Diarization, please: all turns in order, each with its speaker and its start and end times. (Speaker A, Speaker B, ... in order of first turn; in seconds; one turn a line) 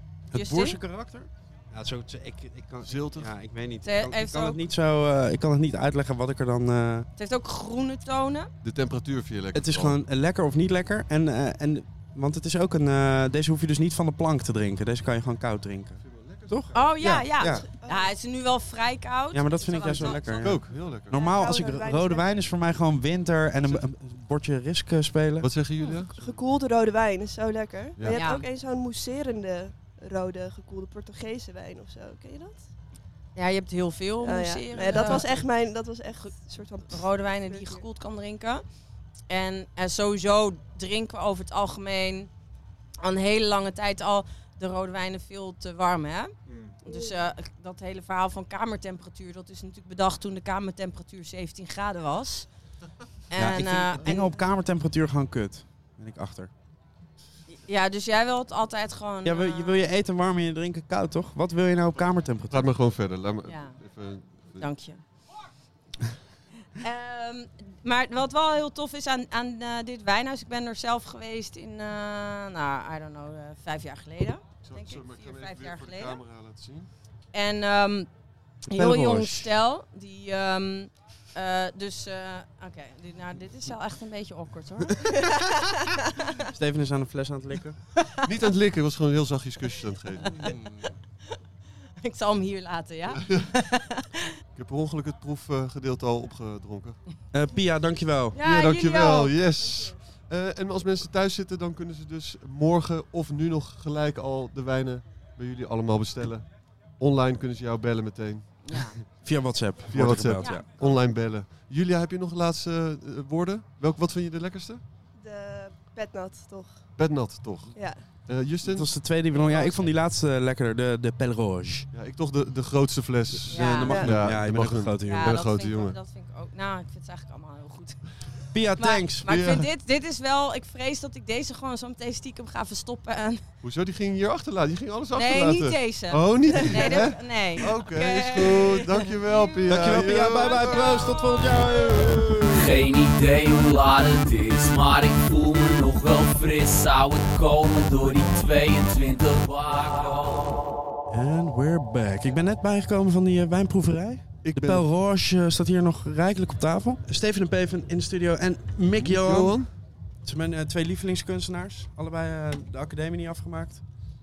Speaker A: 0.3-7.1
Speaker B: 0.3-0.8
Speaker C: 2.8-3.3
Speaker B: 3.8-4.6
Speaker B: 7.2-8.5
Speaker C: 8.6-10.0
Speaker A: 9.5-17.6
Speaker C: 16.0-17.0
Speaker B: 16.7-20.6
Speaker D: 17.4-18.1
Speaker A: 19.3-25.5
Speaker C: 20.2-21.4
Speaker D: 21.1-22.4
Speaker C: 25.4-26.3
Speaker D: 25.8-32.7
Speaker C: 27.9-28.2
Speaker B: 28.1-28.4
Speaker B: 33.3-35.4
Speaker D: 34.2-37.8
Speaker B: 36.9-38.6
Speaker B: 39.3-42.3
Speaker B: 43.0-46.3
Speaker B: 46.8-52.5
Speaker D: 46.8-47.2
Speaker B: 53.3-54.3
Speaker A: 53.3-56.5
Speaker B: 57.6-59.8
Speaker A: 59.2-62.7
Speaker C: 62.5-64.6
Speaker B: 63.5-63.8
Speaker B: 64.5-65.0
Speaker B: 66.8-76.2
Speaker C: 74.6-76.9
Speaker B: 77.3-78.1
Speaker B: 78.7-86.3
Speaker A: 78.7-79.5
Speaker A: 86.5-87.8
Speaker C: 88.2-90.4
Speaker A: 90.4-90.9
Speaker B: 92.0-94.3
Speaker C: 94.5-97.0
Speaker A: 97.3-98.3
Speaker B: 98.3-99.4
Speaker C: 98.4-106.5
Speaker D: 99.4-100.0
Speaker C: 107.0-108.5
Speaker B: 108.6-109.0
Speaker A: 109.2-110.7
Speaker C: 109.9-114.8
Speaker B: 110.4-110.9
Speaker D: 115.2-117.2
Speaker C: 116.9-119.0
Speaker D: 117.7-118.2
Speaker A: 118.6-121.9
Speaker C: 121.9-126.0
Speaker A: 123.4-125.4
Speaker B: 123.5-124.0
Speaker D: 123.9-124.3
Speaker B: 125.0-128.0
Speaker A: 128.5-129.3
Speaker B: 128.8-133.4
Speaker C: 129.3-129.7
Speaker C: 133.6-140.9
Speaker B: 135.1-139.4
Speaker A: 139.7-142.8
Speaker B: 140.4-140.7
Speaker E: 142.5-150.6
Speaker A: 151.1-159.6
Speaker C: 154.4-154.8
Speaker C: 158.9-159.7
Speaker A: 160.2-163.8